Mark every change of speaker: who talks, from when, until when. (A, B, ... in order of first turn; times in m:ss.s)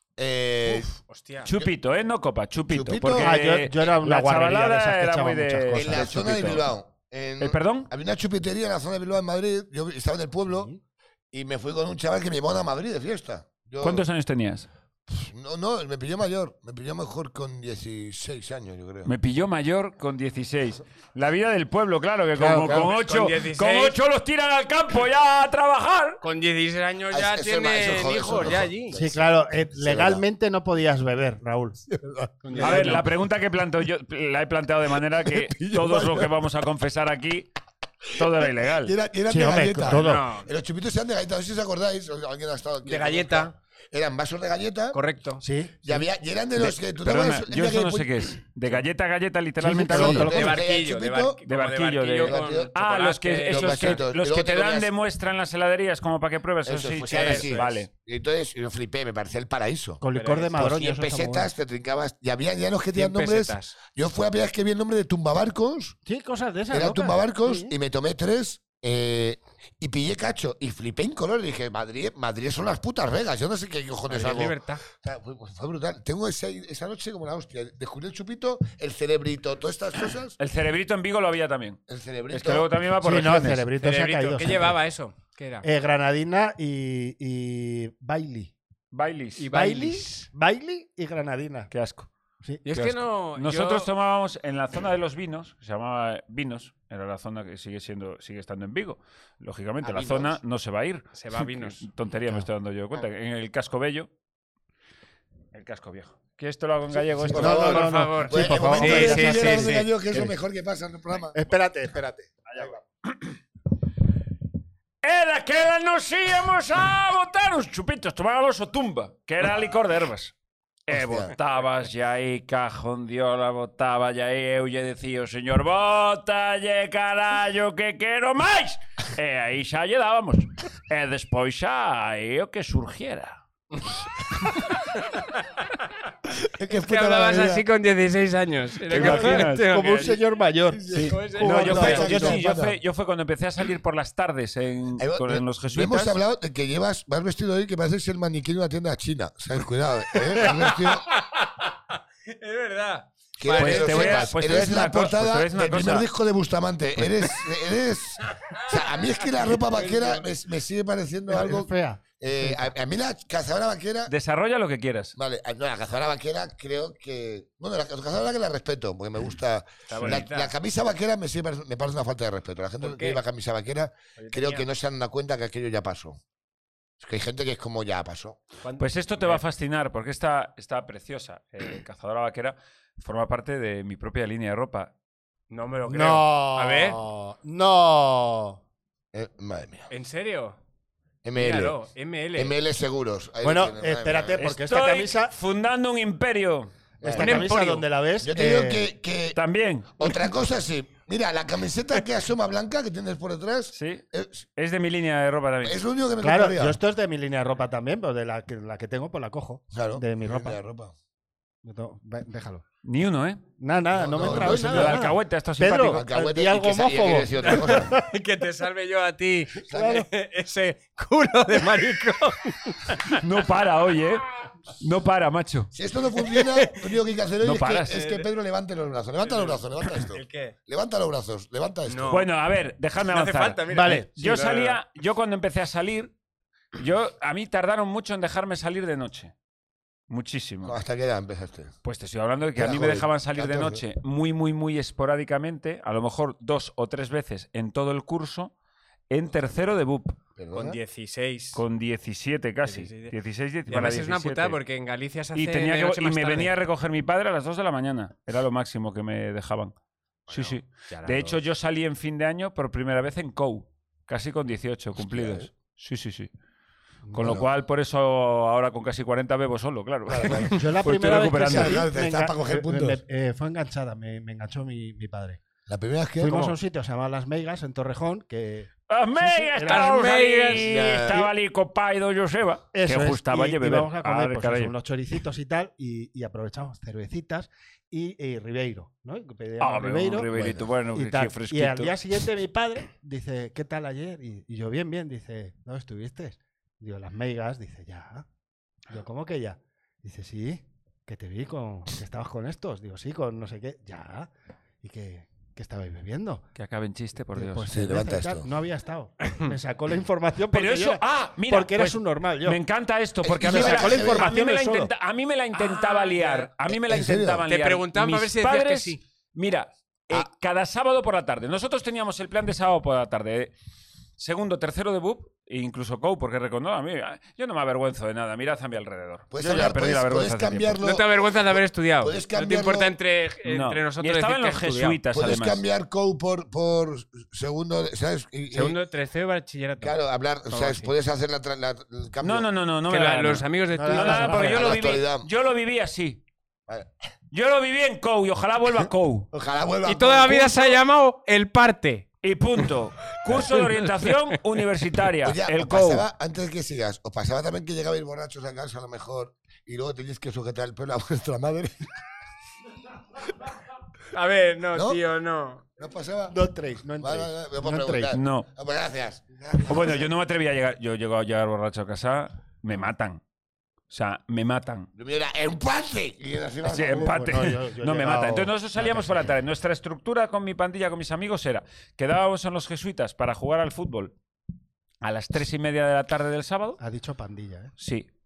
0:00.2-0:00.9 A
0:01.0-0:01.5 B
0:01.5-0:06.7 C
0:02.7-0:03.3 A
0:03.2-0:06.3 D
0:05.7-0:10.7 A
0:07.4-0:07.9 C
0:10.5-0:10.8 D
0:11.3-0:14.0 A
0:13.8-0:14.7 C
0:15.1-0:19.1 A
0:19.0-0:26.2 C
0:22.4-0:22.9 D
0:22.6-0:24.0 B
0:26.2-0:29.0 B
0:27.1-0:30.2 A
0:28.9-0:31.8 D
0:31.9-0:32.3 A
0:32.4-0:33.0 B
0:32.5-0:33.0 D
0:32.6-0:37.5 C
0:35.4-0:36.3 A
0:38.1-0:38.9 C
0:38.2-0:45.0 A
0:39.3-0:40.2 D
0:39.8-0:40.5 B
0:42.8-0:43.5 B
0:44.9-0:45.4 B
0:45.4-0:46.0 D
0:45.8-0:48.3 A
0:46.6-0:50.5 C
0:49.6-0:50.6 D
0:49.9-0:51.4 A
0:50.1-0:54.0 B
0:51.5-0:57.9 C
0:52.2-0:52.7 A
0:53.5-0:54.9 A
0:56.6-1:00.0 A
0:57.1-0:57.8 B
1:00.0-1:01.5 D
1:00.1-1:00.6 B
1:00.5-1:06.0 A
1:02.9-1:03.8 B
1:06.0-1:07.7 D
1:06.7-1:20.4 A
1:14.1-1:14.8 B
1:20.4-1:23.7 C
1:21.9-1:22.7 A
1:23.0-1:24.8 D
1:23.8-1:25.6 B
1:25.6-1:28.5 D
1:28.9-1:29.5 C
1:29.4-1:30.2 B
1:29.5-1:31.7 D
1:31.7-1:32.1 C
1:32.6-1:33.9 B
1:32.7-1:44.1 C
1:39.8-1:40.3 A
1:41.1-1:41.8 B
1:45.5-1:47.9 C
1:47.2-1:51.4 A
1:47.2-1:50.3 D
1:47.4-1:49.9 B
1:51.3-1:52.8 D
1:55.0-2:00.3 C
2:00.9-2:13.4 C
2:00.9-2:01.3 A
2:16.4-2:17.6 A
2:16.7-2:20.2 B
2:18.9-2:19.7 C
2:18.9-2:22.4 D
2:20.9-2:22.2 B
2:20.9-2:26.2 C
2:21.6-2:22.8 A
2:25.0-2:31.1 A
2:30.3-2:34.3 B
2:33.4-2:44.1 A
2:33.6-2:36.1 C
2:39.5-2:40.2 B
2:41.3-2:42.7 D
2:44.1-2:45.1 C
2:45.2-2:56.2 A
2:49.9-2:50.5 B
2:52.8-2:53.2 B
2:54.2-2:54.7 B
2:57.0-2:58.4 A
2:58.6-2:59.4 B
2:58.8-3:04.9 C
3:05.5-3:07.0 B
3:05.9-3:08.6 D
3:09.1-3:09.9 A
3:09.9-3:10.6 B
3:11.2-3:11.8 A
3:11.4-3:12.6 B
3:12.4-3:14.4 A
3:13.4-3:15.3 D
3:14.4-3:16.7 C
3:17.0-3:17.5 A
3:17.0-3:18.8 D
3:17.2-3:17.8 B
3:18.2-3:19.4 A
3:19.3-3:19.9 C
3:19.9-3:24.4 A
3:23.7-3:24.0 C
3:24.6-3:25.8 C
3:25.6-3:26.8 A
3:26.2-3:30.6 D
3:29.7-3:30.9 A
3:31.6-3:32.6 D
3:32.8-3:33.4 C
3:33.6-3:38.0 D
3:33.9-3:35.1 A
3:34.2-3:36.0 C
3:35.8-3:38.0 A
3:37.6-3:43.2 B
3:39.7-3:40.1 A
3:39.7-3:40.1 D
3:43.1-3:44.2 C
3:44.8-3:45.7 C
3:45.7-3:52.2 A
3:46.2-3:46.9 B
3:47.4-3:48.0 C
3:47.9-3:48.3 B
3:49.2-3:50.5 B
3:51.9-3:52.3 B
3:52.1-3:56.1 C
3:53.1-3:54.8 B
3:53.7-3:54.1 D
3:56.7-3:59.3 C
4:00.1-4:00.8 C
4:00.6-4:01.7 A
4:01.8-4:08.5 C
4:02.6-4:03.8 A
4:09.1-4:10.2 C
4:10.4-4:10.8 A
4:10.5-4:11.6 B
4:11.5-4:14.6 C
4:12.6-4:13.1 B
4:13.7-4:16.5 B
4:15.3-4:19.7 C
4:20.3-4:21.4 B
4:20.3-4:26.3 C
4:25.0-4:25.5 A
4:27.1-4:27.4 D
4:27.1-4:31.8 C
4:27.2-4:27.5 A
4:30.1-4:30.6 A
4:30.5-4:35.4 D
4:31.4-4:33.0 A
4:35.7-4:36.6 A
4:36.2-4:39.9 D
4:38.9-4:44.7 C
4:39.6-4:40.6 B
4:40.5-4:41.2 A
4:42.7-4:50.3 D
4:49.6-4:51.9 C
4:50.3-4:50.6 A
4:50.9-4:58.2 D
4:58.9-5:04.3 D
5:04.8-5:06.4 D
5:06.6-5:07.7 C
5:07.3-5:12.6 D
5:07.7-5:08.5 A
5:09.3-5:09.5 B
5:10.5-5:23.5 C
5:13.2-5:14.3 A
5:13.4-5:14.9 D
5:15.5-5:16.5 B
5:16.7-5:17.4 A
5:17.5-5:19.0 B
5:24.2-5:30.8 C
5:29.3-5:31.1 A
5:30.8-5:35.0 B
5:32.0-5:32.9 A
5:33.4-5:35.6 C
5:35.1-5:38.8 A
5:38.5-5:40.0 B
5:39.8-5:42.5 A
5:40.5-5:40.9 B
5:42.2-5:46.2 C
5:42.9-5:44.7 B
5:43.7-5:44.6 D
5:44.4-5:45.3 A
5:47.3-5:49.3 C
5:49.3-5:50.8 A
5:49.8-5:52.1 B
5:52.2-5:56.1 C
5:55.2-6:01.9 A
6:04.1-6:05.6 B
6:04.7-6:05.0 A
6:05.8-6:06.4 A
6:06.3-6:08.1 D
6:07.0-6:10.1 A
6:08.1-6:08.4 C
6:09.6-6:13.2 C
6:13.9-6:14.9 C
6:14.9-6:17.4 A
6:16.7-6:24.1 C
6:16.7-6:19.2 D
6:25.0-6:26.8 C
6:26.8-6:27.7 D
6:27.8-6:28.1 C